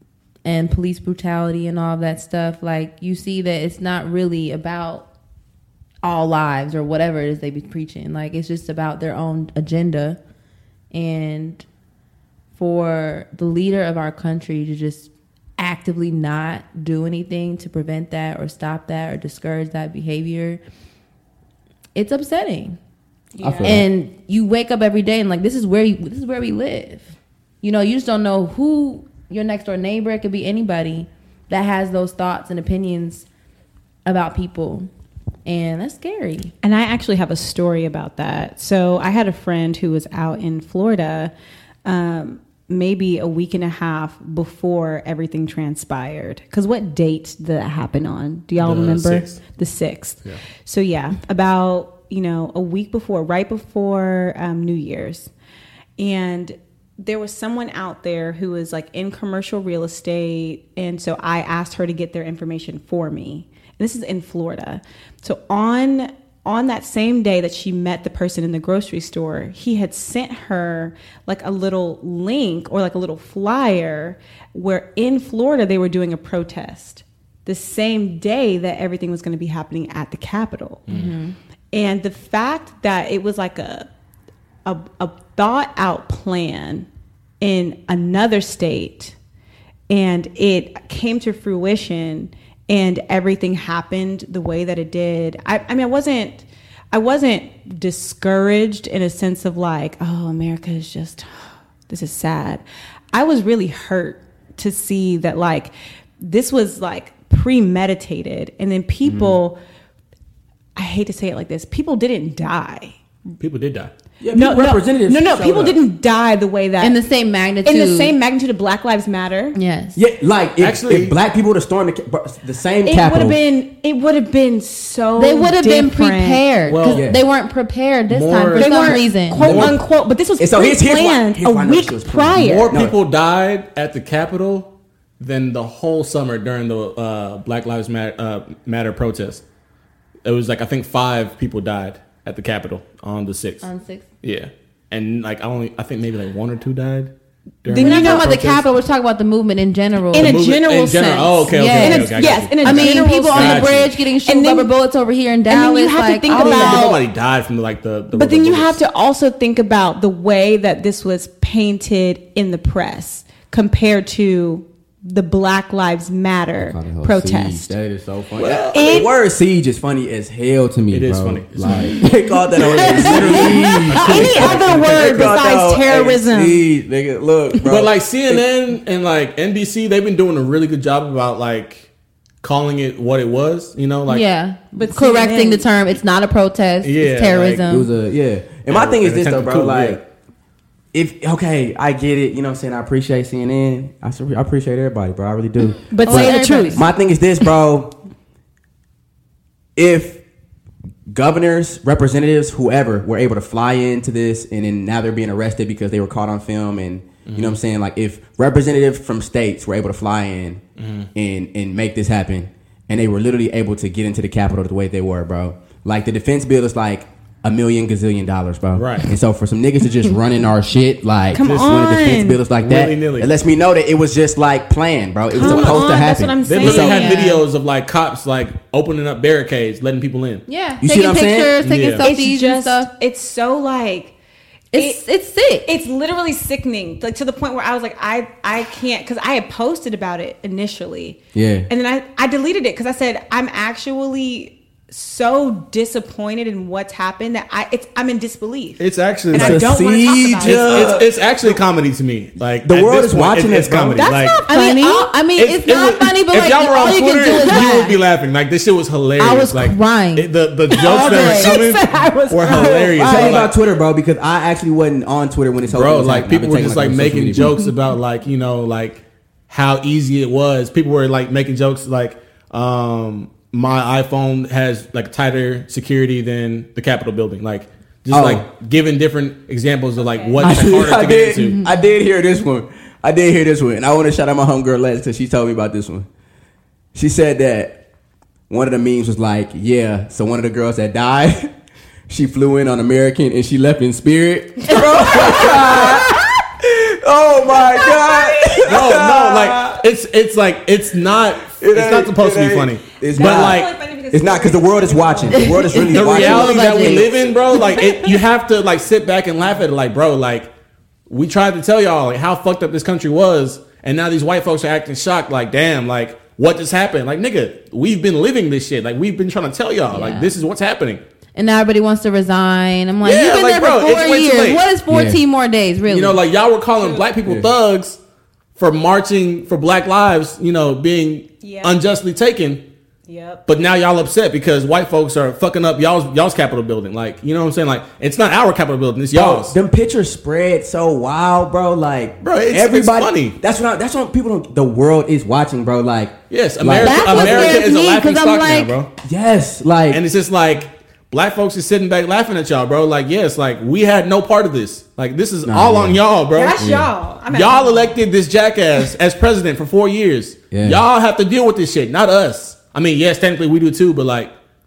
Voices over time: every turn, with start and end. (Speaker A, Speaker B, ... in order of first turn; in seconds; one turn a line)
Speaker A: 0.4-5.1
Speaker A: 6.0-10.2
Speaker A: 10.9-11.6
Speaker A: 12.6-20.6
Speaker A: 21.9-22.8
Speaker B: 23.3-23.8
Speaker C: 23.4-23.9
Speaker A: 23.6-27.1
Speaker A: 27.6-33.2
Speaker A: 34.0-34.9
Speaker A: 35.5-36.5
Speaker B: 36.6-41.3
Speaker B: 41.8-55.3
Speaker D: 48.6-49.4
Speaker B: 56.0-80.8
Speaker D: 80.9-81.1
Speaker A: 80.9-81.3
Speaker B: 81.7-83.9
Speaker B: 84.6-86.9
Speaker B: 87.4-89.1
Speaker B: 89.9-109.6
Speaker C: 109.1-109.3
Speaker B: 110.8-113.0
Speaker D: 113.4-113.9
Speaker C: 114.2-115.8
Speaker B: 114.3-117.0
Speaker A: 116.8-118.1
Speaker B: 117.6-119.6
Speaker A: 119.5-120.0
Speaker C: 119.9-123.4
Speaker D: 120.6-121.1
Speaker B: 122.8-126.4
Speaker A: 125.2-129.4
Speaker D: 126.7-127.1
Speaker C: 126.8-127.2
Speaker D: 128.1-129.8
Speaker B: 128.5-132.7
Speaker C: 129.4-129.8
Speaker C: 130.4-132.9
Speaker D: 132.4-139.4
Speaker D: 140.2-143.7
Speaker A: 143.6-144.0
Speaker D: 144.2-147.1
Speaker D: 147.6-148.7
Speaker B: 147.7-148.3
Speaker A: 147.8-150.4
Speaker D: 150.1-153.9
Speaker B: 150.1-154.7
Speaker A: 151.5-157.0
Speaker B: 155.5-157.0
Speaker D: 156.3-158.8
Speaker B: 158.2-167.7
Speaker C: 166.6-178.4
Speaker D: 168.4-169.1
Speaker B: 168.7-169.1
Speaker D: 170.9-172.1
Speaker D: 172.6-175.4
Speaker B: 172.7-176.6
Speaker D: 177.6-181.9
Speaker D: 182.4-184.2
Speaker A: 184.1-187.9
Speaker B: 184.7-185.7
Speaker D: 186.8-187.6
Speaker C: 187.7-190.0
Speaker D: 188.7-190.0
Speaker C: 190.9-197.9
Speaker B: 195.9-196.8
Speaker A: 196.0-196.8
Speaker C: 199.8-200.2
Speaker C: 201.1-210.6
Speaker D: 207.2-207.6
Speaker D: 210.8-211.1
Speaker C: 211.1-227.2
Speaker D: 218.7-219.1
Speaker B: 221.3-222.4
Speaker D: 221.4-221.7
Speaker D: 222.6-223.3
Speaker B: 225.3-227.4
Speaker D: 225.4-225.9
Speaker D: 226.4-230.4
Speaker A: 230.5-232.9
Speaker C: 230.8-231.6
Speaker D: 231.6-232.1
Speaker B: 232.0-234.1
Speaker A: 234.7-235.7
Speaker B: 234.7-235.0
Speaker B: 235.7-251.0
Speaker C: 241.3-241.7
Speaker D: 248.8-249.7
Speaker C: 249.3-251.5
Speaker D: 250.4-254.4
Speaker C: 252.6-254.1
Speaker B: 253.9-255.1
Speaker A: 254.5-258.0
Speaker D: 255.4-263.5
Speaker B: 257.3-257.7
Speaker A: 259.2-260.3
Speaker B: 260.7-263.5
Speaker A: 260.8-261.6
Speaker C: 263.0-267.7
Speaker D: 265.7-281.6
Speaker C: 278.1-278.4
Speaker B: 280.0-280.7
Speaker C: 280.4-286.1
Speaker C: 286.9-287.8
Speaker C: 288.5-291.5
Speaker C: 292.1-299.8
Speaker A: 295.1-295.4
Speaker B: 297.5-299.0
Speaker D: 298.7-303.7
Speaker C: 301.5-307.4
Speaker B: 303.1-305.9
Speaker A: 305.8-307.1
Speaker D: 305.8-310.5
Speaker B: 307.5-308.1
Speaker D: 311.1-321.0
Speaker A: 319.9-320.3
Speaker A: 321.3-326.2
Speaker D: 323.0-324.6
Speaker C: 324.9-325.2
Speaker D: 325.9-328.0
Speaker B: 326.8-327.1
Speaker C: 327.2-327.5
Speaker D: 328.6-332.6
Speaker B: 331.4-331.8
Speaker B: 333.1-333.4
Speaker D: 333.5-339.6
Speaker C: 339.1-347.6
Speaker D: 342.2-343.4
Speaker D: 346.3-348.9
Speaker A: 346.8-348.7
Speaker C: 349.0-350.0
Speaker D: 349.9-356.7
Speaker C: 355.4-356.0
Speaker B: 356.3-357.9
Speaker C: 356.6-356.9
Speaker D: 357.3-364.3
Speaker C: 360.5-360.8